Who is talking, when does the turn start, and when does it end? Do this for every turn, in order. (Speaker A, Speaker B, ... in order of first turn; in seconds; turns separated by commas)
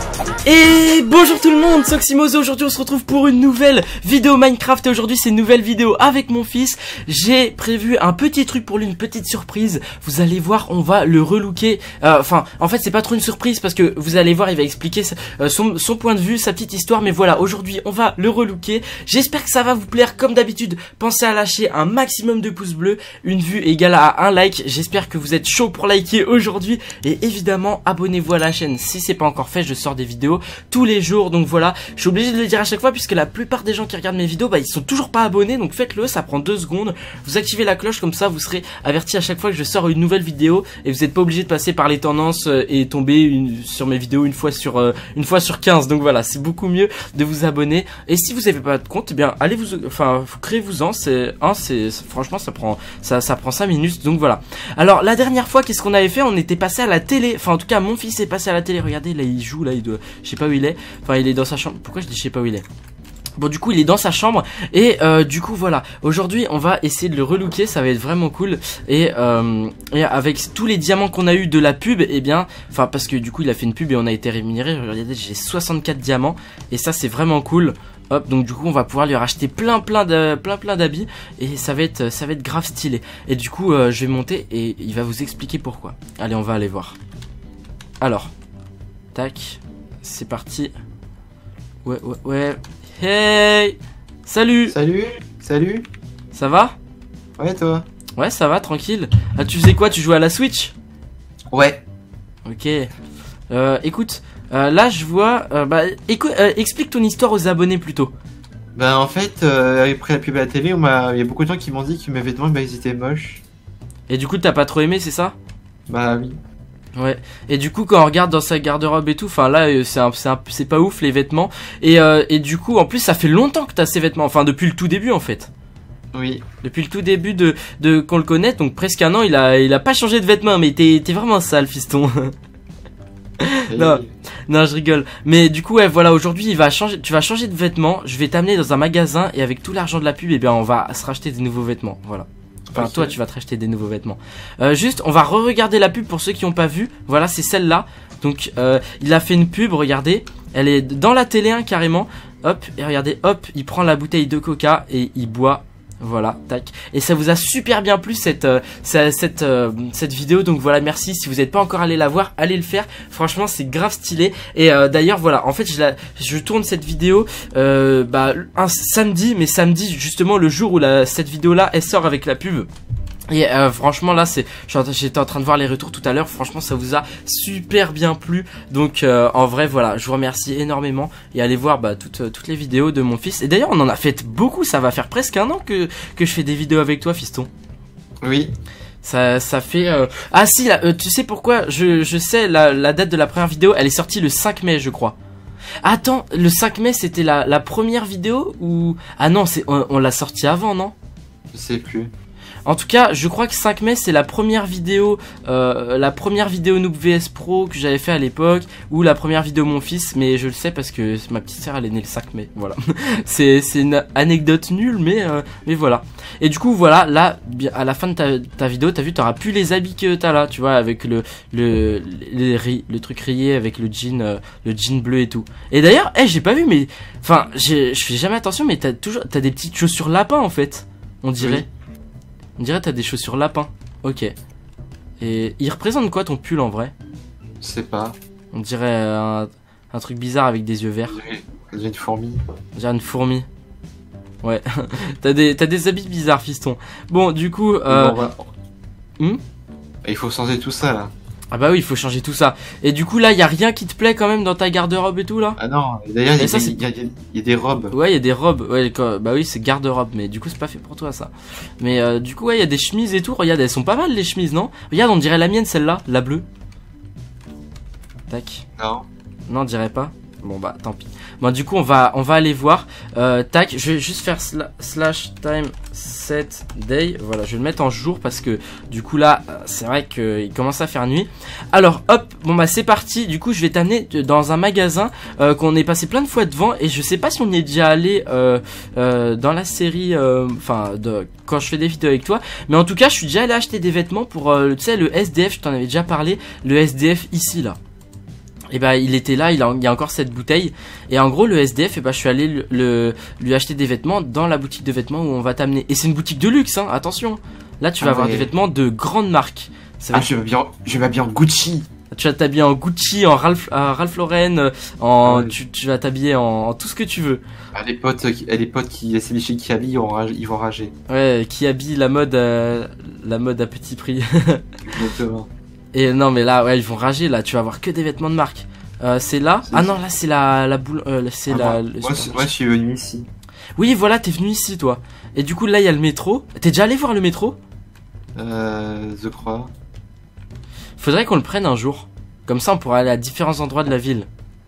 Speaker A: 0.4-62.6, Speaker A: 63.4-87.0, Speaker A: 88.0-88.3, Speaker A: 89.1-90.7, Speaker A: 91.8-94.8, Speaker B: 94.7-95.9, Speaker A: 96.3-96.8, Speaker B: 97.4-97.8, Speaker A: 98.2-100.7, Speaker B: 101.5-101.8, Speaker A: 102.5-102.9, Speaker A: 103.5-108.1, Speaker B: 108.7-113.4, Speaker A: 114.1-115.3, Speaker B: 115.9-116.3, Speaker A: 117.0-125.5, Speaker B: 126.1-126.4, Speaker A: 126.6-132.3, Speaker A: 133.4-172.7, Speaker B: 133.7-134.1, Speaker B: 142.7-143.1, Speaker A: 173.3-187.5, Speaker B: 188.2-188.5, Speaker A: 189.0-195.2, Speaker A: 195.8-200.9, Speaker B: 201.5-202.1, Speaker A: 202.7-231.7, Speaker B: 231.4-231.6, Speaker A: 232.6-234.3, Speaker A: 235.2-236.9, Speaker B: 237.6-238.1, Speaker A: 238.5-241.2, Speaker B: 241.1-242.4, Speaker A: 242.8-243.4, Speaker A: 244.4-248.2, Speaker B: 247.9-248.5, Speaker B: 250.0-251.1, Speaker A: 251.5-255.6, Speaker B: 255.6-257.9, Speaker A: 256.4-256.8, Speaker A: 257.9-266.4, Speaker A: 268.3-268.6, Speaker B: 268.8-269.1, Speaker A: 269.5-297.8, Speaker A: 298.7-310.3, Speaker B: 308.0-308.5, Speaker B: 310.1-311.9, Speaker A: 312.1-317.4, Speaker B: 315.2-315.6, Speaker B: 317.7-320.9, Speaker A: 321.1-324.6, Speaker B: 324.9-325.5, Speaker A: 325.9-332.5, Speaker B: 329.7-329.9, Speaker B: 331.5-333.3, Speaker A: 333.8-337.6, Speaker B: 338.3-339.7, Speaker A: 341.0-344.3